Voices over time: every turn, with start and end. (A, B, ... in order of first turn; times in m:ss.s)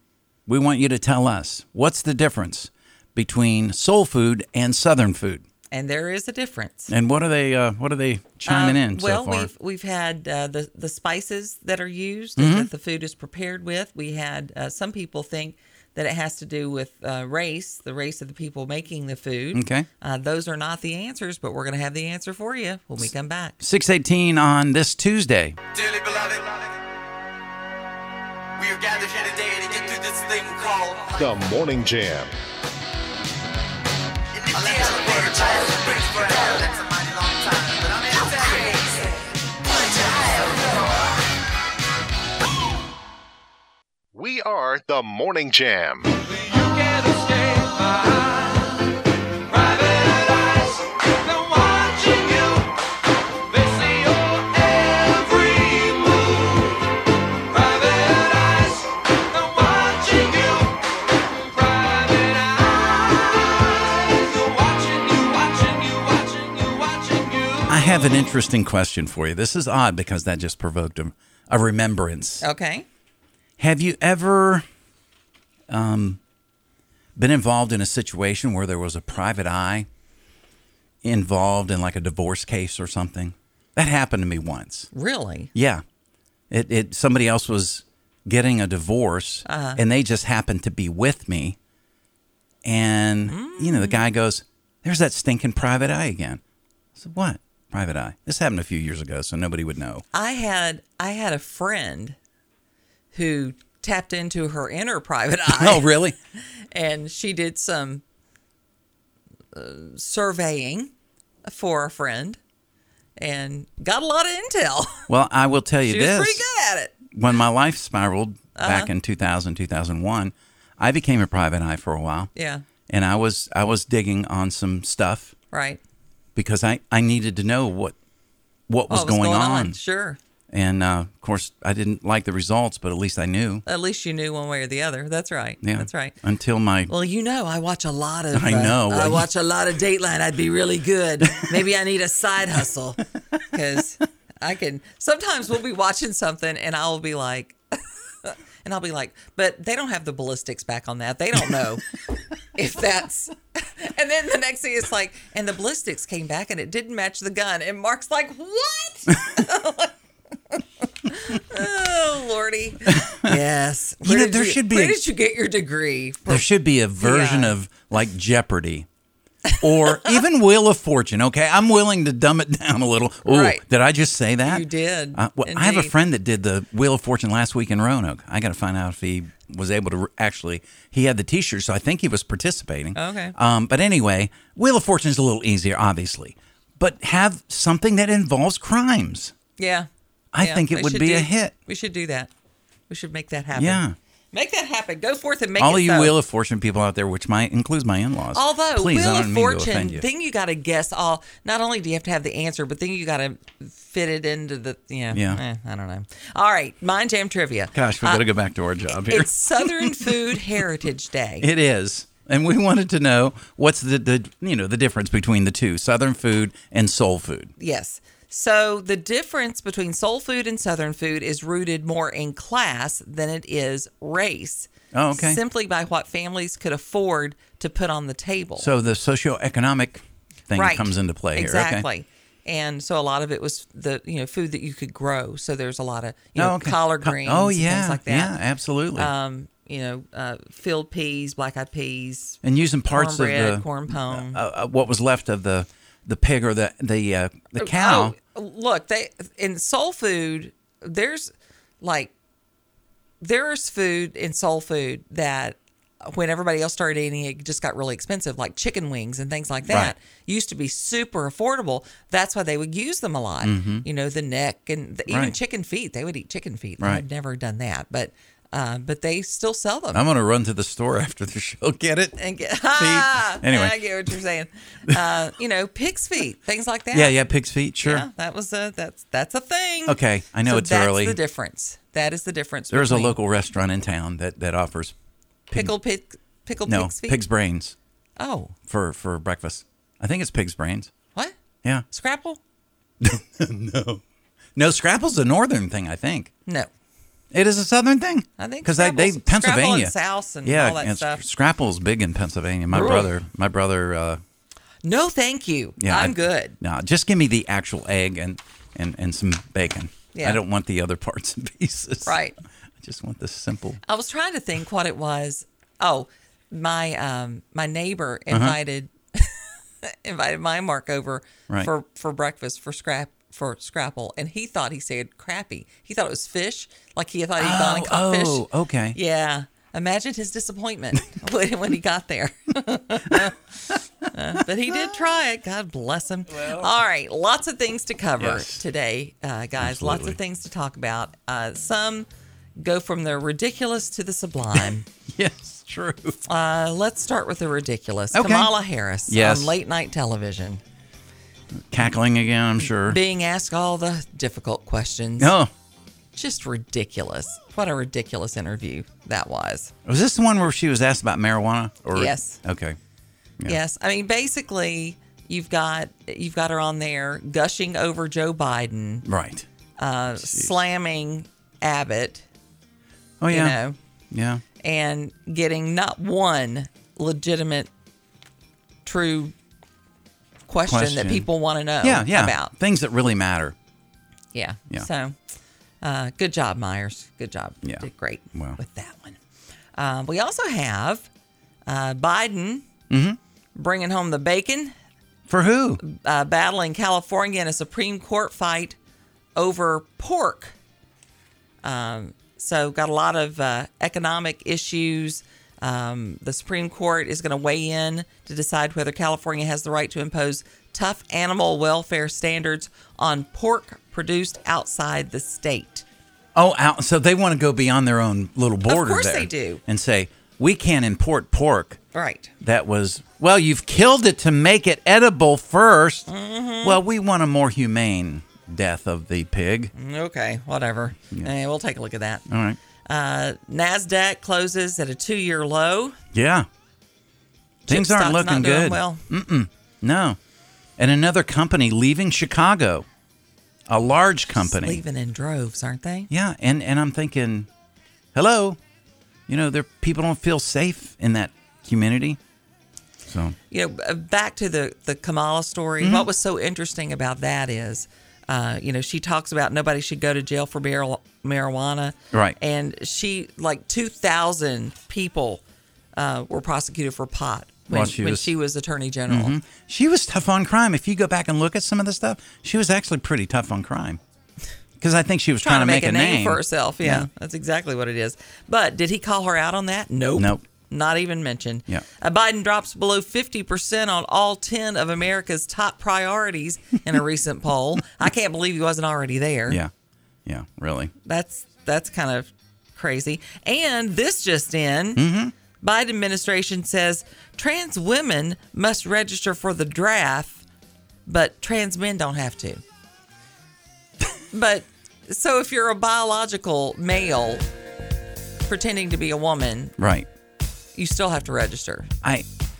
0:00.5-0:05.4 A
0:05.7-0:06.9 B
0:06.9-0:09.5 A
0:08.4-0:23.6 B
0:12.4-0:12.7 A
0:19.5-0:19.9 A
0:23.6-0:25.6 A
0:25.9-0:26.3 C
0:28.7-0:31.0 C
0:31.1-0:32.3 D
0:34.6-0:36.7 C
0:37.7-0:38.6 C
0:44.1-0:46.1 D
0:46.5-0:48.2 C
0:49.5-0:50.6 C
0:51.4-0:52.5 C
0:53.6-0:56.2 C
0:57.6-0:58.8 C
0:59.4-1:00.7 C
1:01.7-1:02.7 C
1:04.3-1:07.6 C
1:07.7-1:12.4 A
1:12.4-1:12.8 B
1:13.6-1:14.6 A
1:15.7-1:16.2 A
1:17.2-1:19.9 A
1:21.0-1:24.9 A
1:24.9-1:25.5 B
1:25.5-1:25.8 A
1:26.5-1:31.6 A
1:29.5-1:29.8 B
1:32.6-1:36.4 A
1:33.3-1:34.0 B
1:37.0-1:40.0 A
1:40.1-1:42.2 B
1:43.1-1:45.9 B
1:45.5-1:46.2 A
1:46.7-1:48.0 B
1:49.5-1:50.9 B
1:51.4-1:52.4 B
1:53.2-1:55.1 B
1:55.1-1:56.4 A
1:55.9-1:56.9 B
1:57.1-2:02.3 A
1:58.6-1:58.9 B
2:02.3-2:02.6 B
2:02.9-2:05.3 A
2:05.5-2:05.8 B
2:06.4-2:08.0 A
2:08.7-2:09.8 A
2:08.9-2:10.2 B
2:10.5-2:13.6 A
2:13.6-2:16.1 B
2:15.6-2:16.9 A
2:16.9-2:27.6 B
2:18.3-2:19.3 A
2:28.2-2:31.8 B
2:32.6-2:39.9 B
2:40.5-2:47.5 B
2:42.9-2:43.4 A
2:44.0-2:45.0 A
2:46.3-2:48.9 A
2:49.5-2:50.2 B
2:49.6-3:09.3 A
2:53.2-2:53.6 B
2:54.4-2:55.9 B
3:02.9-3:03.3 B
3:09.6-3:09.9 B
3:10.3-3:11.5 A
3:10.4-3:12.3 B
3:12.9-3:16.1 B
3:13.5-3:14.0 A
3:15.6-3:20.0 A
3:18.3-3:28.2 B
3:25.1-3:25.4 A
3:27.7-3:30.2 A
3:29.1-3:31.5 B
3:31.4-3:37.5 A
3:37.6-3:48.7 B
3:44.9-3:45.4 A
3:48.6-3:51.8 A
3:50.5-3:58.3 B
3:56.4-3:59.1 A
3:58.9-4:02.4 B
4:02.4-4:08.1 A
4:02.9-4:04.4 B
4:07.6-4:12.1 B
4:13.2-4:30.0 B
4:19.7-4:19.9 A
4:23.4-4:23.8 A
4:25.1-4:25.3 A
4:29.9-4:32.2 A
4:32.2-4:37.2 B
4:32.7-4:33.8 A
4:36.9-4:38.0 A
4:37.8-4:43.1 B
4:39.8-4:41.2 A
4:42.7-4:44.9 A
4:45.5-4:47.2 B
4:46.7-4:47.7 A
4:48.2-4:48.5 B
4:48.7-4:50.9 A
4:51.9-4:52.4 B
4:53.0-4:54.0 A
4:54.6-4:56.3 A
4:57.3-4:59.9 A
4:58.4-5:01.2 B
5:00.4-5:04.2 A
5:02.7-5:03.1 B
5:04.8-5:06.5 B
5:05.8-5:12.2 A
5:10.1-5:10.4 B
5:12.0-5:12.3 B
5:12.8-5:13.8 A
5:13.8-5:42.1 B
5:18.3-5:18.6 A
5:27.4-5:29.0 A
5:36.3-5:36.7 A
5:38.2-5:38.6 A
5:39.6-5:40.2 A
5:42.6-5:44.8 B
5:45.1-5:46.2 A
5:46.3-5:50.6 B
5:48.1-5:48.5 A
5:49.1-5:49.5 A
5:51.5-5:53.0 A
5:52.7-5:55.3 B
5:55.2-5:55.5 A
5:56.1-5:59.7 B
5:59.8-6:02.8 A
6:01.9-6:02.4 B
6:03.5-6:09.0 B
6:09.0-6:09.5 A
6:09.8-6:12.2 B
6:10.2-6:10.5 A
6:13.2-6:13.6 A
6:13.3-6:13.8 B
6:14.1-6:14.4 A
6:14.6-6:17.7 B
6:18.8-6:19.3 B
6:20.5-6:22.5 B
6:20.7-6:21.2 A
6:21.8-6:23.5 A
6:24.3-6:25.1 B
6:25.8-6:29.2 B
6:27.6-6:28.6 A
6:29.8-6:31.0 B
6:31.7-6:32.7 B
6:32.9-6:33.2 A
6:33.6-6:34.7 B
6:35.3-6:35.8 A
6:35.8-6:38.8 B
6:39.4-6:40.5 B
6:41.6-6:55.8 B
6:56.3-7:01.8 A
6:58.7-6:59.6 B
7:01.9-7:02.3 B
7:02.4-7:06.1 A
7:06.1-7:06.8 B
7:06.6-7:09.7 A
7:09.8-7:12.2 B
7:12.3-7:12.6 A
7:12.9-7:16.0 B
7:16.1-7:16.5 A
7:17.7-7:19.0 B
7:17.7-7:20.2 A
7:20.8-7:22.8 A
7:23.7-7:24.8 A
7:24.4-7:26.1 B
7:26.1-7:27.5 A
7:28.1-7:28.6 A
7:29.3-7:32.2 A
7:33.0-7:33.4 A
7:33.5-7:45.4 B
7:35.8-7:36.1 A
7:46.0-7:49.4 B
7:47.7-7:48.3 A
7:49.1-7:54.0 A
7:54.8-7:57.1 A
7:55.4-8:09.6 B
8:00.1-8:00.4 A
8:10.2-8:10.9 A
8:11.0-8:15.0 B
8:15.0-8:15.3 A
8:15.6-8:20.4 B
8:21.0-8:22.6 B
8:24.3-8:27.4 B
8:28.5-8:29.7 B
8:29.8-8:30.1 A
8:30.7-8:31.9 B